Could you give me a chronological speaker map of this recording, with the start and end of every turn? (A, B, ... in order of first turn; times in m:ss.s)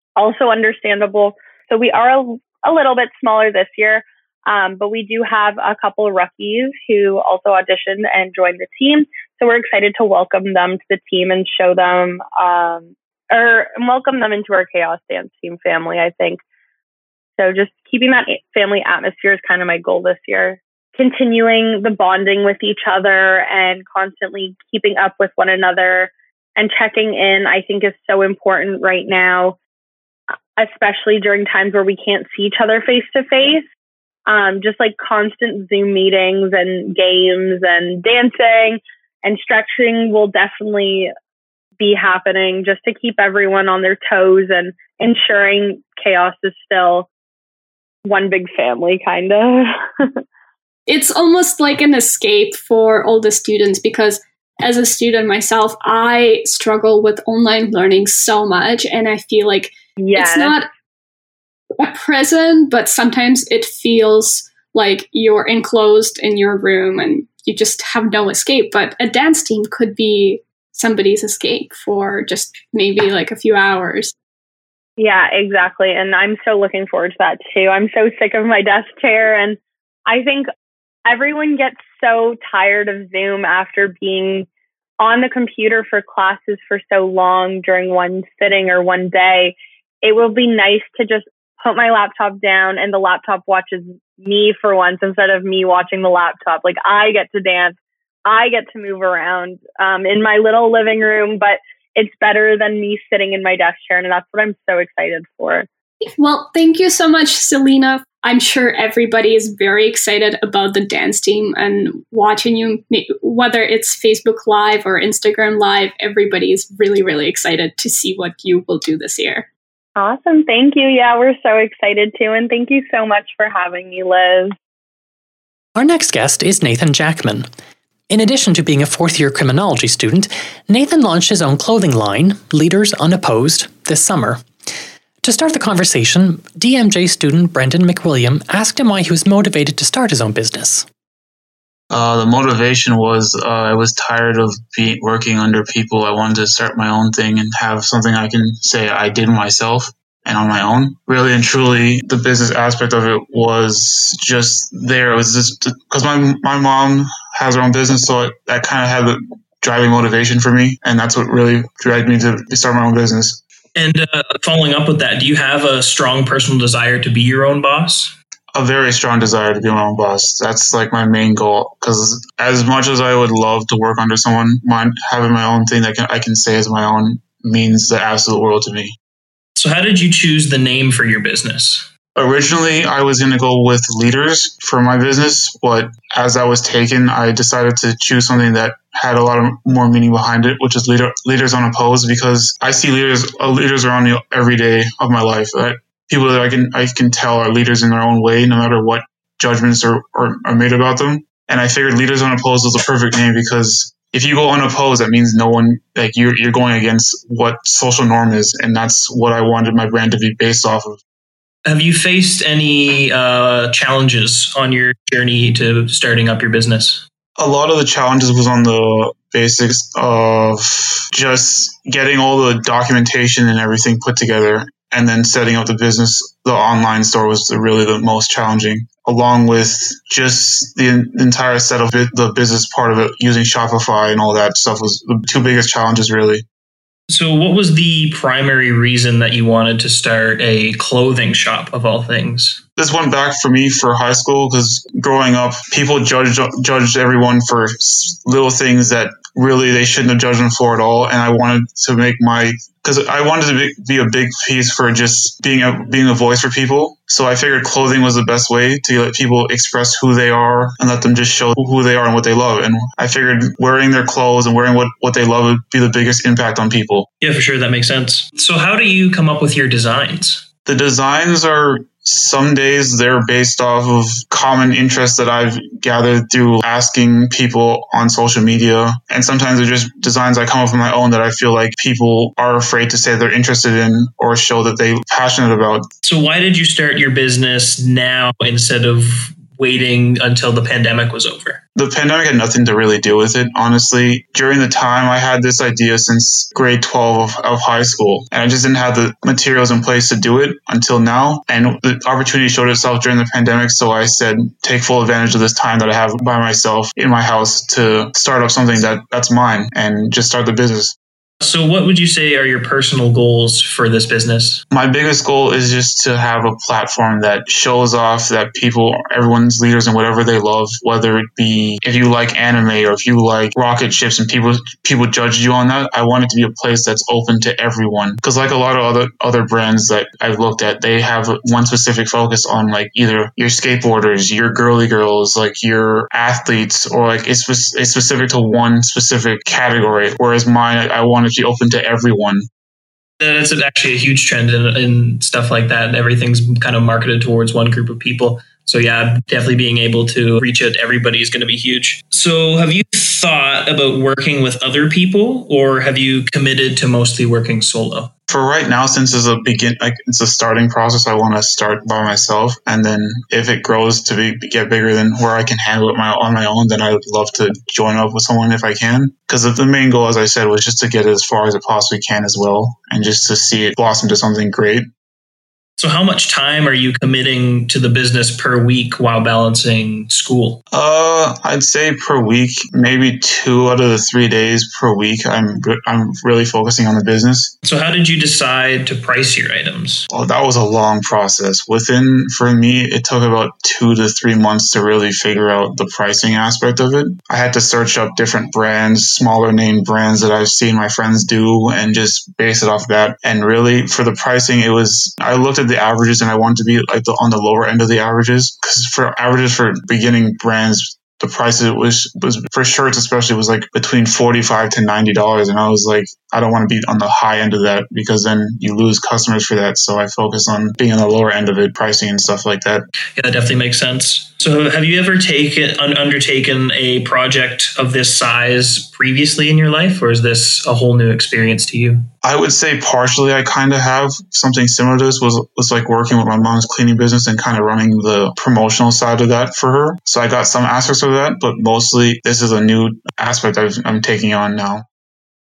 0:00.2-0:16.4 A
0:17.4-0:29.6 A
0:30.6-0:33.6 A
0:34.3-0:41.1 A
0:41.8-0:47.1 A
0:48.1-0:49.7 A
0:50.9-1:00.7 B
1:00.0-1:00.6 A
1:01.8-1:14.1 B
1:15.0-1:20.4 A
1:21.1-1:24.5 A
1:25.0-1:45.7 A
1:46.1-1:59.5 B
2:00.0-2:04.5 A
2:05.8-2:07.5 C
2:08.1-2:14.4 C
2:15.2-2:20.9 C
2:21.9-2:43.4 D
2:43.8-2:48.1 E
2:48.5-2:59.0 D
2:59.6-3:01.9 E
3:02.2-3:31.0 D
3:31.7-3:37.0 E
3:37.4-3:56.4 D
3:57.1-4:02.6 E
4:02.8-4:27.1 D
4:27.2-4:30.4 E
4:30.6-4:45.9 D
4:46.0-4:51.6 E
4:51.8-5:11.0 D
5:11.4-5:14.6 E
5:14.7-5:42.5 D
5:43.2-5:58.1 E
5:58.3-6:14.9 D
6:15.8-6:20.6 E
6:20.7-6:27.5 D
6:27.6-6:30.1 E
6:30.1-7:02.9 D
7:03.2-7:12.1 E
7:12.2-7:24.8 D